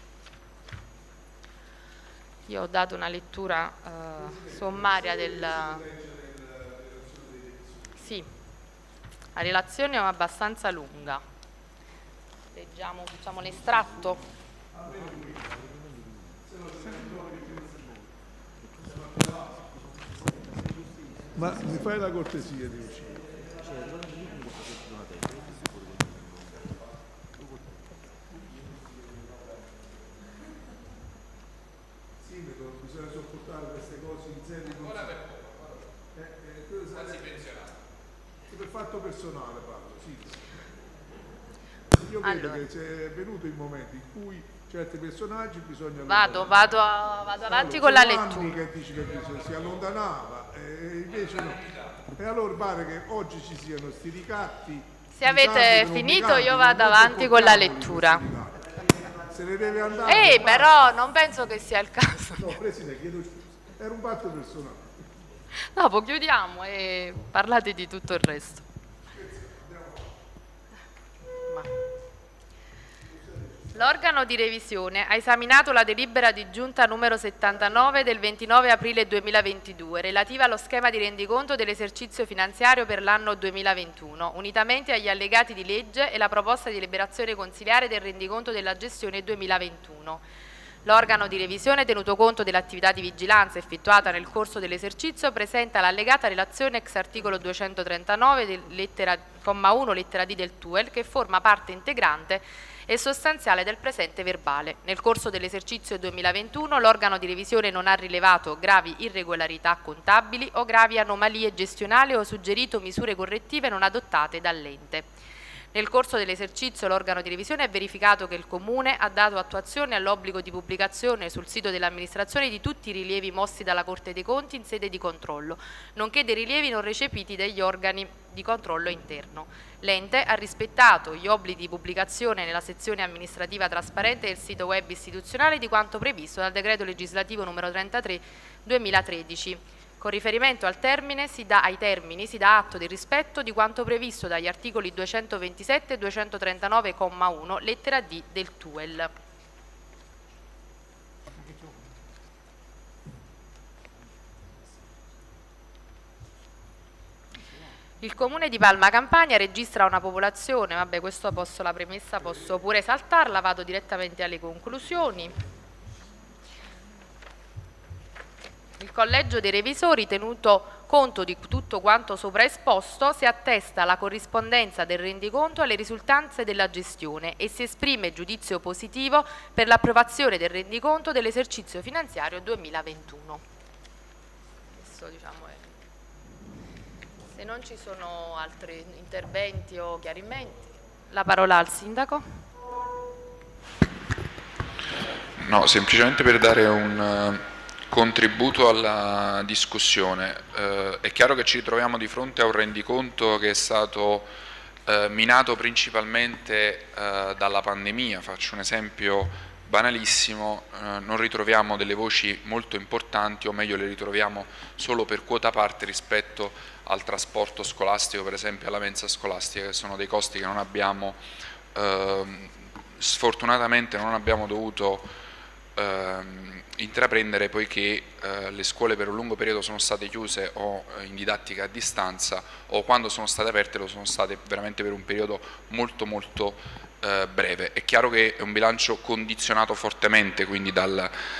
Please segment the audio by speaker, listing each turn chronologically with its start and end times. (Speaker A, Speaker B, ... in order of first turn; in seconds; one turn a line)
Speaker A: 2.5-5.8
Speaker B: 4.2-8.0
Speaker A: 8.0-8.3
Speaker A: 9.3-11.2
Speaker A: 12.5-14.2
Speaker B: 14.7-15.6
Speaker B: 16.4-17.9
Speaker B: 18.9-19.6
Speaker B: 21.3-23.4
Speaker B: 32.2-35.5
Speaker B: 36.1-37.7
Speaker B: 38.5-40.6
Speaker B: 41.9-46.8
Speaker A: 42.2-42.6
Speaker A: 46.1-48.6
Speaker B: 47.4-60.7
Speaker A: 55.1-58.2
Speaker A: 60.1-62.5
Speaker B: 62.4-64.9
Speaker A: 65.7-68.7
Speaker B: 69.1-70.1
Speaker B: 73.2-73.6
Speaker A: 73.7-90.2
Speaker A: 90.8-115.1
Speaker A: 115.7-149.1
Speaker A: 158.0-165.3
Speaker A: 168.8-183.4
Speaker A: 184.8-185.6
Speaker A: 187.3-192.2
Speaker C: 195.4-204.3
Speaker C: 204.9-221.2
Speaker C: 221.8-225.1
Speaker C: 225.8-241.1